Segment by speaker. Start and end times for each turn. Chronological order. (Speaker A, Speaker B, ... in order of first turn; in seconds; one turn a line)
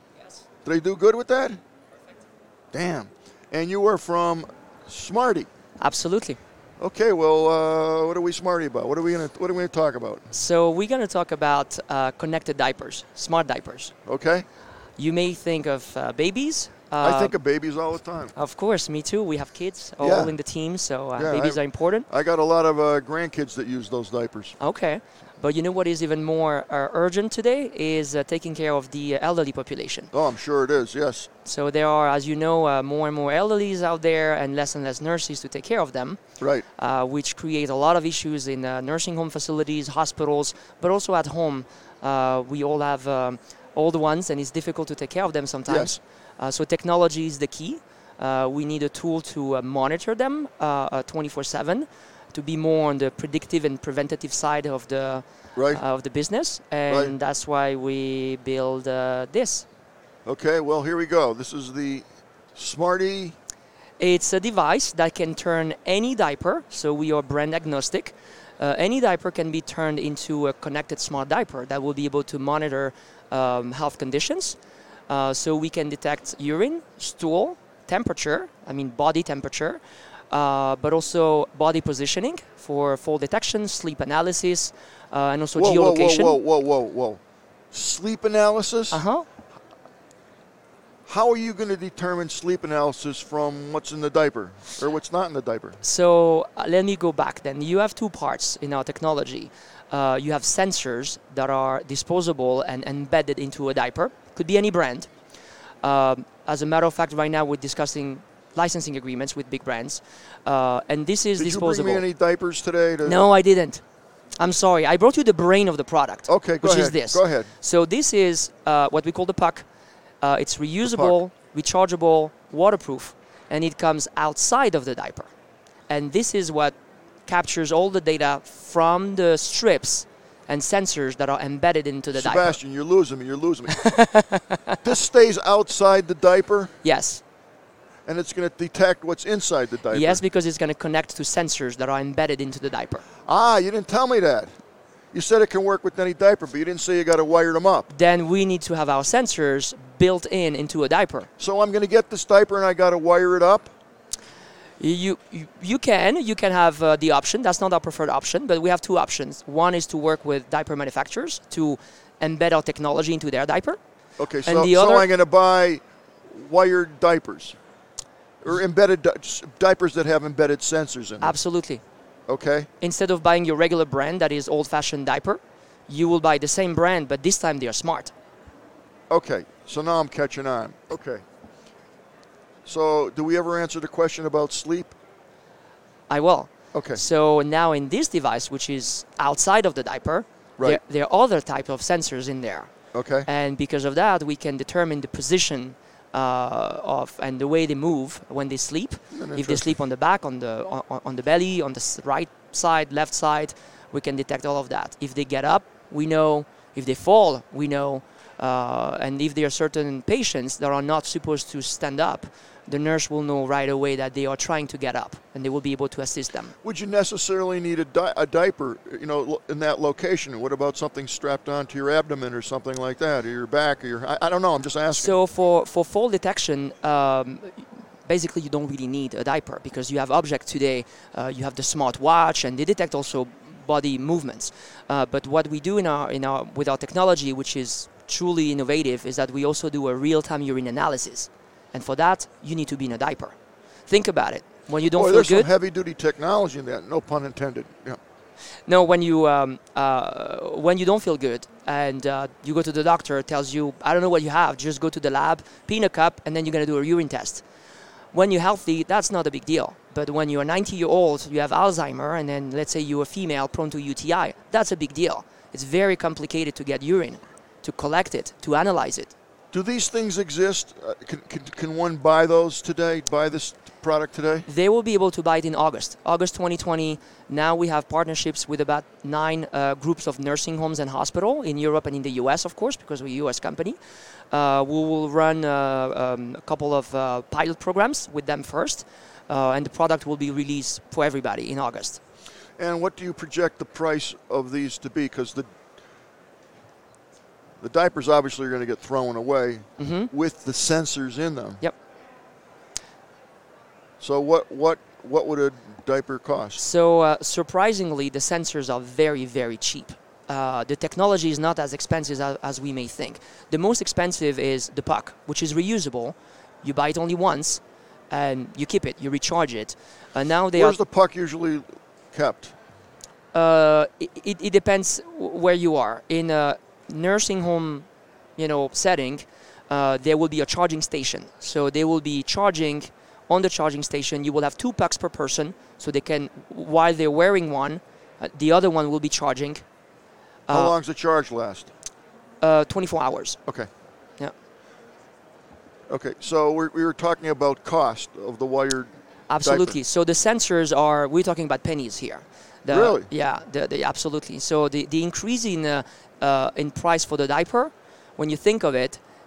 Speaker A: 0.6-1.6
Speaker A: 2.7-5.5
Speaker B: 5.8-6.4
Speaker A: 6.8-10.3
Speaker B: 10.3-13.9
Speaker A: 14.1-14.4
Speaker B: 15.0-17.4
Speaker A: 17.0-18.3
Speaker B: 18.3-22.1
Speaker A: 20.0-20.4
Speaker A: 21.1-24.6
Speaker B: 24.6-30.1
Speaker A: 30.1-31.3
Speaker B: 31.4-36.2
Speaker B: 36.8-59.6
Speaker A: 45.7-45.9
Speaker A: 55.5-55.8
Speaker A: 56.9-57.1
Speaker A: 60.2-63.4
Speaker B: 64.0-74.6
Speaker B: 75.1-86.4
Speaker A: 85.5-87.2
Speaker A: 87.7-89.0
Speaker B: 88.9-89.2
Speaker A: 91.1-95.8
Speaker B: 95.8-105.1
Speaker B: 105.8-112.0
Speaker A: 111.4-113.2
Speaker B: 113.0-113.8
Speaker B: 114.4-119.6
Speaker A: 116.3-117.5
Speaker B: 120.2-125.3
Speaker A: 120.8-121.2
Speaker B: 125.9-132.6
Speaker A: 132.1-133.9
Speaker B: 133.8-134.8
Speaker A: 134.8-136.7
Speaker B: 136.8-137.2
Speaker A: 138.1-140.2
Speaker B: 139.9-143.0
Speaker A: 143.2-144.5
Speaker A: 145.1-147.9
Speaker B: 147.9-151.3
Speaker A: 151.4-153.7
Speaker B: 154.8-163.8
Speaker A: 164.2-167.6
Speaker B: 164.4-165.1
Speaker A: 168.4-171.4
Speaker B: 171.2-171.8
Speaker A: 172.3-172.7
Speaker B: 172.8-178.1
Speaker A: 179.1-181.2
Speaker A: 182.7-184.9
Speaker B: 186.1-192.7
Speaker A: 186.7-187.0
Speaker A: 192.9-193.3
Speaker B: 193.2-216.5
Speaker A: 199.1-199.8
Speaker A: 216.6-225.2
Speaker B: 224.9-243.3
Speaker B: 243.9-245.5
Speaker A: 244.9-248.0
Speaker B: 248.7-257.4
Speaker B: 258.1-269.1
Speaker A: 269.5-274.5
Speaker B: 274.5-283.8
Speaker B: 284.3-292.0
Speaker A: 292.6-295.5
Speaker A: 297.6-301.6
Speaker B: 299.8-300.1
Speaker A: 304.0-306.6
Speaker B: 306.6-320.8
Speaker A: 320.5-322.5
Speaker B: 323.3-327.9
Speaker B: 328.4-339.6
Speaker B: 340.5-340.7
Speaker A: 340.5-341.7
Speaker B: 342.4-343.4
Speaker A: 345.9-348.9
Speaker B: 349.3-359.0
Speaker A: 349.4-349.8
Speaker A: 352.7-353.1